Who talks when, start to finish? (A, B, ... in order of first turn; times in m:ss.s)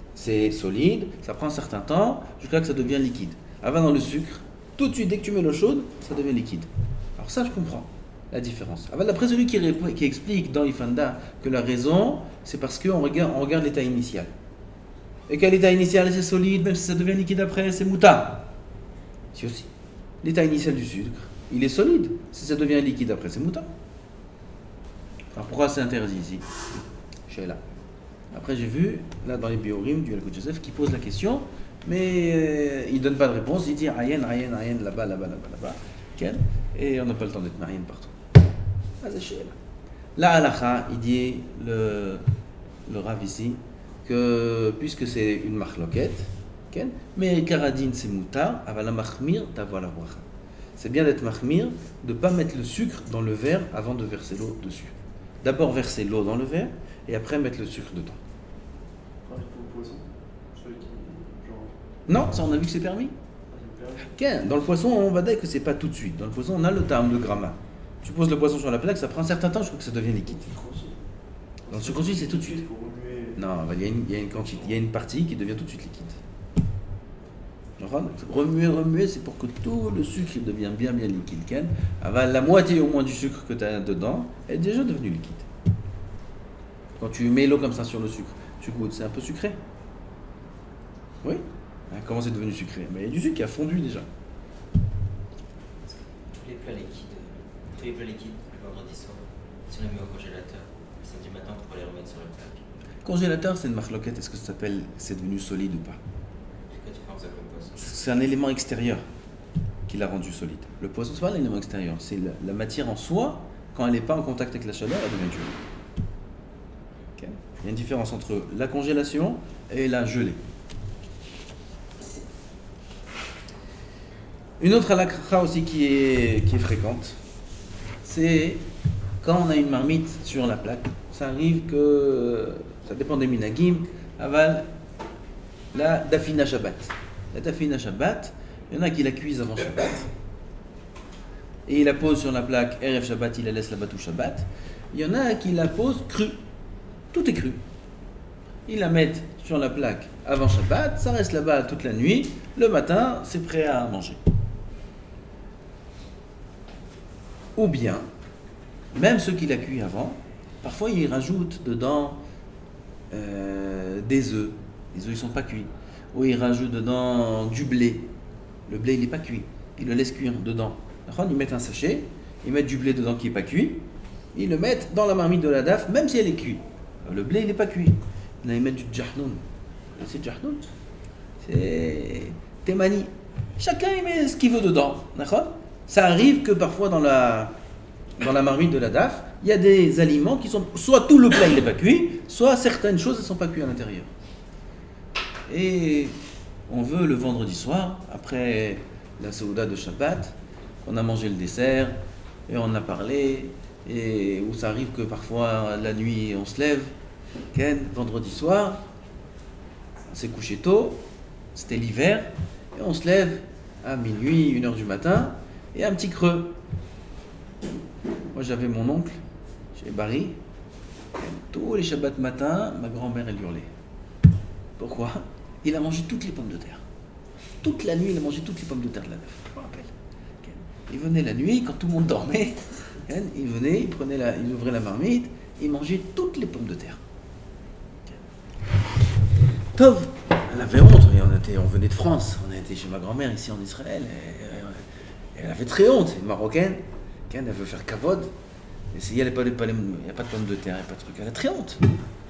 0:00.2-0:14.3 A
0:15.3-0:18.5 A
0:19.3-0:19.7 A
0:20.2-0:23.7 A
0:25.4-0:26.5 A
0:27.3-0:27.6 A
0:28.3-0:38.1 A
0:39.0-0:39.6 A
0:40.2-0:42.3 A
0:42.9-0:50.2 A
0:50.8-0:58.2 A
0:59.2-1:01.7 B
1:02.1-1:03.1 A
1:03.5-1:04.1 B
1:04.1-1:10.4 A
1:10.3-1:11.0 B
1:11.6-1:13.4 B
1:11.7-1:12.7 A
1:13.4-1:16.2 A
1:17.8-1:25.5 A
1:27.0-1:29.6 A
1:31.2-1:34.1 A
1:35.9-1:42.6 C
1:43.0-1:46.0 A
1:46.7-1:47.9 C
1:47.8-1:49.0 A
1:49.9-1:55.6 A
1:57.2-2:00.4 A
2:04.6-2:07.2 A
2:08.0-2:08.6 A
2:09.2-2:14.7 A
2:15.7-2:20.1 A
2:21.7-2:26.4 A
2:27.1-2:27.6 A
2:28.7-2:34.2 A
2:37.6-2:38.0 A
2:38.9-2:42.2 A
2:43.1-2:48.1 A
2:48.7-2:59.4 A
3:00.0-3:00.6 A
3:01.4-3:07.6 A
3:08.2-3:14.1 A
3:15.5-3:16.1 A
3:16.7-3:22.0 A
3:22.5-3:26.9 A
3:27.5-3:28.8 A
3:30.1-3:31.0 A
3:31.6-3:36.6 A
3:38.3-3:39.2 A
3:39.8-3:40.4 A
3:41.2-3:43.7 A
3:44.8-3:46.8 A
3:47.6-3:57.0 A
3:59.7-4:04.8 A
4:05.4-4:08.3 A
4:08.9-4:11.9 A